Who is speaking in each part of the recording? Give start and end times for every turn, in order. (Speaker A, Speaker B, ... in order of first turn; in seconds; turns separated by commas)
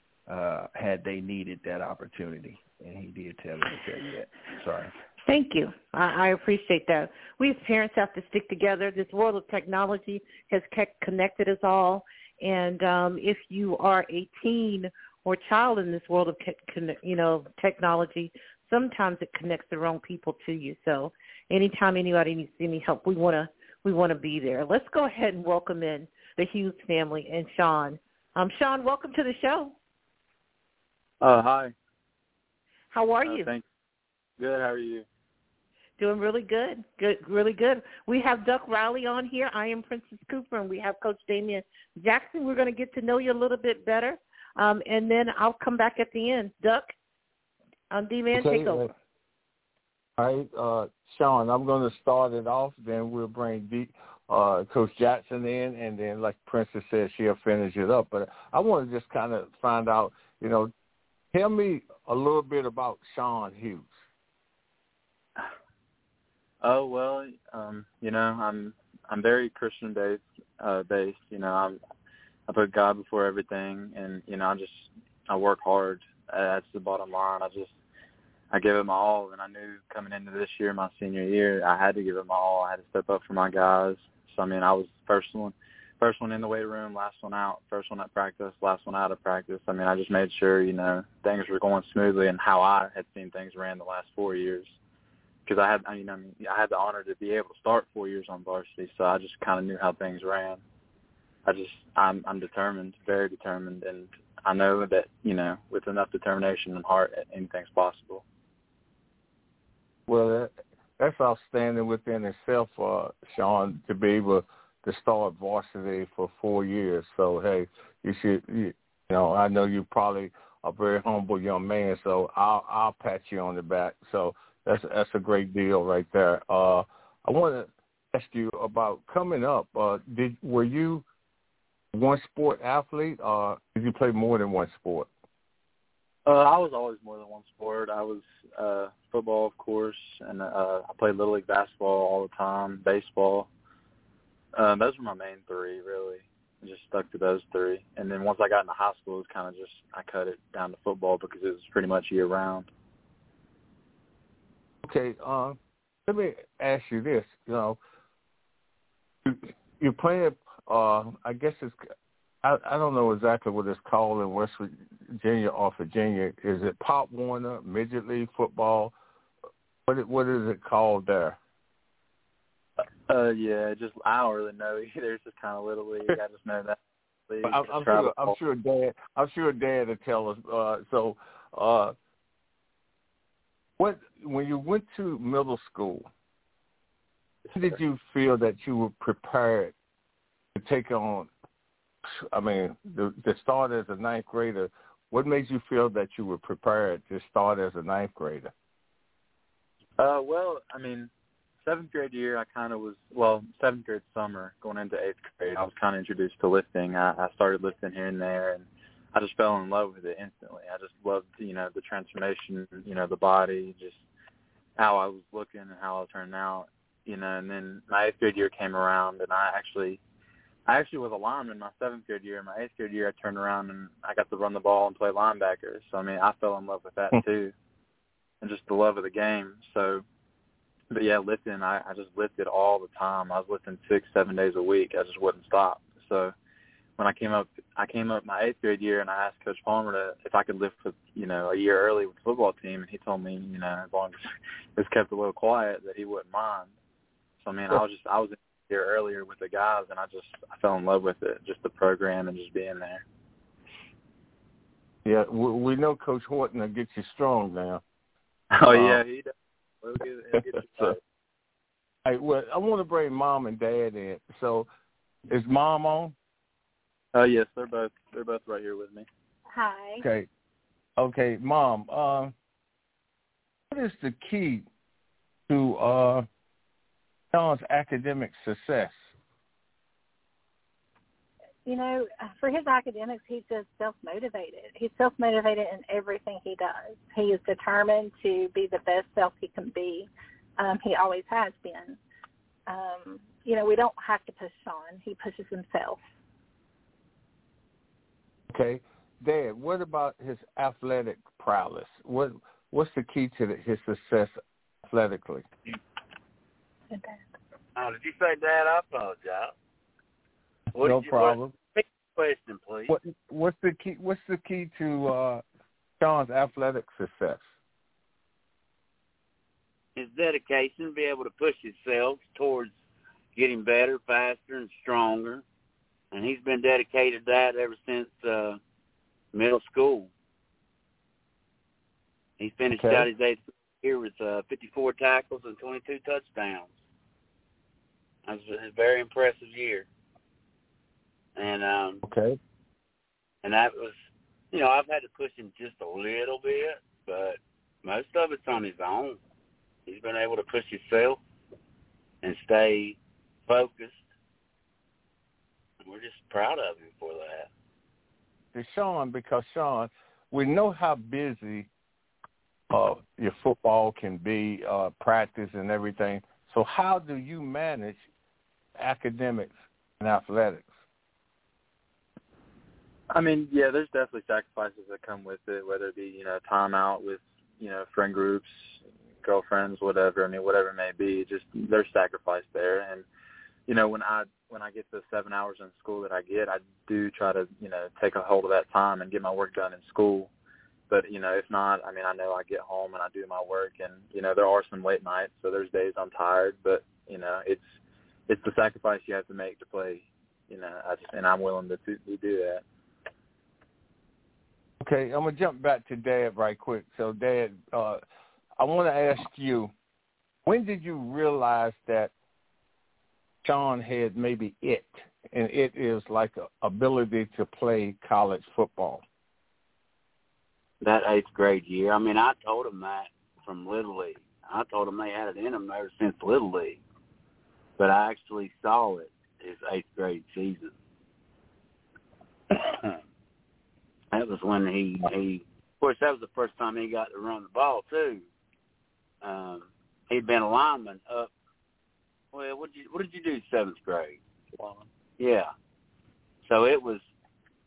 Speaker A: 0.3-4.9, Speaker B: 5.2-29.8, Speaker C: 31.2-31.7, Speaker B: 32.9-33.5, Speaker C: 33.2-33.6, Speaker C: 34.4-35.1, Speaker B: 36.0-46.9, Speaker B: 47.9-48.9, Speaker D: 48.3-48.9, Speaker D: 50.2-60.7, Speaker D: 61.3-63.9, Speaker C: 66.6-71.8, Speaker C: 72.5-77.7, Speaker C: 78.5-94.7, Speaker C: 95.5-100.6, Speaker C: 101.5-108.2, Speaker D: 110.1-131.1, Speaker D: 131.9-135.1, Speaker C: 136.3-143.5, Speaker C: 144.5-152.7, Speaker D: 154.8-157.8, Speaker D: 159.2-161.8, Speaker D: 162.4-168.9, Speaker D: 169.9-171.4, Speaker C: 173.1-178.4, Speaker D: 177.4-181.9, Speaker D: 183.8-186.1, Speaker C: 187.5-187.8, Speaker D: 187.6-189.7, Speaker D: 190.5-191.3, Speaker D: 192.1-198.5, Speaker C: 200.0-201.1, Speaker C: 201.6-214.0, Speaker C: 214.8-220.0, Speaker C: 220.7-227.5, Speaker C: 228.4-230.0, Speaker C: 230.9-236.3, Speaker C: 237.0-246.7, Speaker C: 247.4-253.0, Speaker D: 255.0-257.8, Speaker C: 258.5-261.0, Speaker D: 258.7-259.0, Speaker D: 260.4-260.9, Speaker D: 262.1-264.7, Speaker D: 265.3-266.1, Speaker C: 267.1-269.1, Speaker E: 269.5-270.0, Speaker D: 270.0-270.3, Speaker D: 271.0-272.3, Speaker D: 273.7-274.7, Speaker D: 275.5-276.3, Speaker D: 277.3-279.0, Speaker E: 281.7-292.0, Speaker E: 292.7-296.0, Speaker D: 298.5-305.4, Speaker E: 306.9-307.2, Speaker F: 307.8-309.5, Speaker F: 310.7-312.9, Speaker D: 310.8-311.5, Speaker D: 312.9-315.4, Speaker D: 316.0-317.4, Speaker F: 320.0-322.7, Speaker F: 323.4-325.4, Speaker F: 326.1-328.6, Speaker F: 329.3-330.1, Speaker F: 332.4-336.7, Speaker D: 332.8-333.1, Speaker F: 338.3-339.9, Speaker F: 341.4-342.0, Speaker D: 342.0-342.4, Speaker F: 343.4-344.0, Speaker F: 344.5-349.2, Speaker F: 349.9-351.2, Speaker F: 352.2-354.0, Speaker F: 355.8-357.5, Speaker D: 358.5-361.7, Speaker D: 362.7-368.0, Speaker D: 368.8-370.7, Speaker C: 373.1-383.1, Speaker C: 383.7-390.3, Speaker C: 390.9-397.6, Speaker C: 398.3-402.6, Speaker D: 404.8-408.0, Speaker D: 408.6-409.7, Speaker D: 410.5-412.1, Speaker D: 413.4-419.0, Speaker F: 420.8-426.8, Speaker F: 427.8-430.7, Speaker F: 434.1-438.3, Speaker F: 439.2-441.3, Speaker F: 442.3-444.2, Speaker C: 444.6-444.9, Speaker F: 445.2-445.5, Speaker F: 446.4-447.0